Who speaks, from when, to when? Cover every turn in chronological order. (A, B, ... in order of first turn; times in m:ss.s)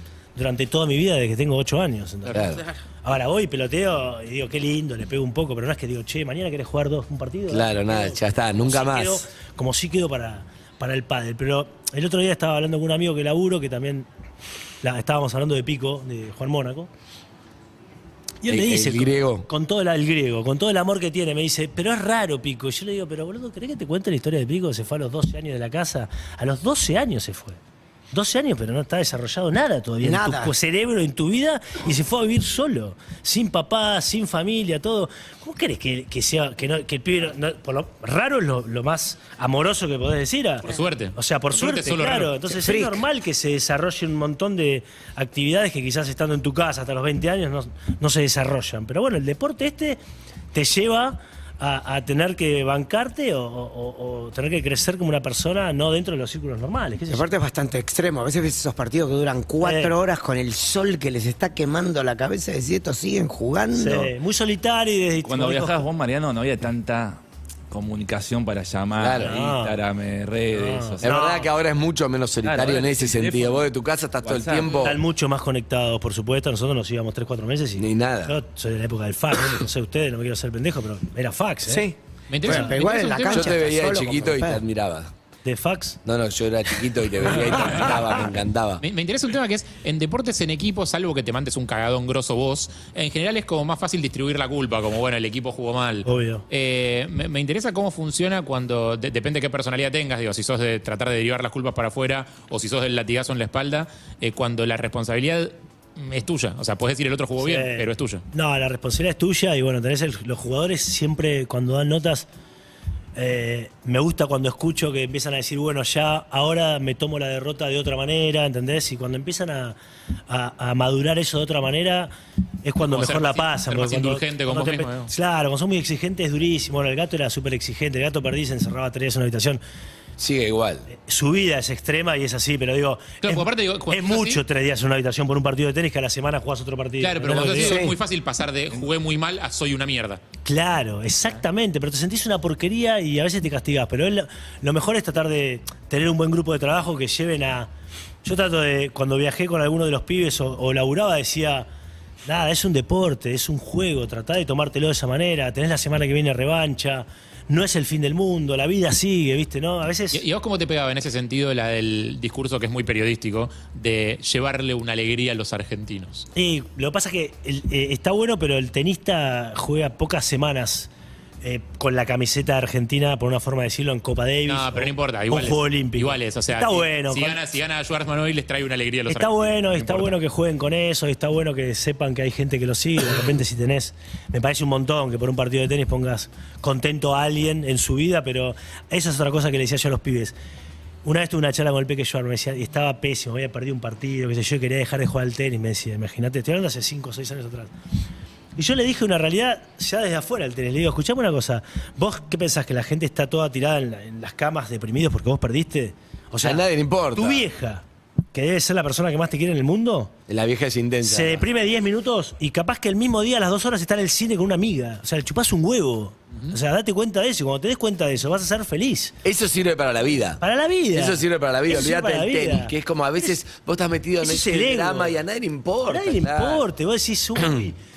0:00.4-0:02.5 A
0:02.3-0:02.6 B
0:03.0-0:14.1 A
0:07.5-0:09.2 B
0:14.8-0:16.9 A
0:18.4-0:27.6 A
0:18.5-0:19.5 B
0:28.1-0:50.0 A
0:30.0-0:30.5 C
0:40.6-0:42.4 D
0:42.6-0:43.0 C
0:50.5-0:57.3 A
0:57.1-1:04.1 C
0:59.6-1:00.0 A
1:03.7-1:05.8 A
1:05.2-1:11.2 E
1:09.0-1:09.4 B
1:09.1-1:09.8 A
1:10.5-1:11.5 A
1:11.0-1:15.0 B
1:12.4-1:13.7 E
1:14.2-1:14.9 E
1:14.8-1:21.9 A
1:17.8-1:18.4 B
1:21.7-1:24.6 C
1:22.3-1:23.6 D
1:22.5-1:22.7 A
1:23.3-1:25.1 B
1:25.4-1:26.0 A
1:26.0-1:28.8 B
1:28.8-1:48.2 D
1:36.0-1:36.4 A
1:47.4-1:52.3 A
1:53.2-2:02.1 A
2:02.6-2:09.6 A
2:02.8-2:05.1 D
2:10.2-2:10.9 B
2:10.9-2:17.9 A
2:13.2-2:14.4 D
2:17.0-2:20.2 D
2:17.5-2:18.0 C
2:20.4-2:27.7 A
2:28.2-2:31.7 A
2:32.2-2:40.2 A
2:40.1-2:46.3 D
2:46.4-2:50.9 A
2:51.4-2:57.4 A
2:54.5-3:00.1 D
2:59.1-3:10.4 A
3:11.0-3:17.7 A
3:18.6-3:30.1 A
3:26.4-3:27.5 B
3:30.3-3:31.5 B
3:31.0-3:39.1 A
3:39.2-3:40.4 B
3:40.4-3:43.4 A
3:40.9-3:46.6 B
3:44.2-3:45.2 A
3:45.8-3:47.8 A
3:47.4-3:47.7 B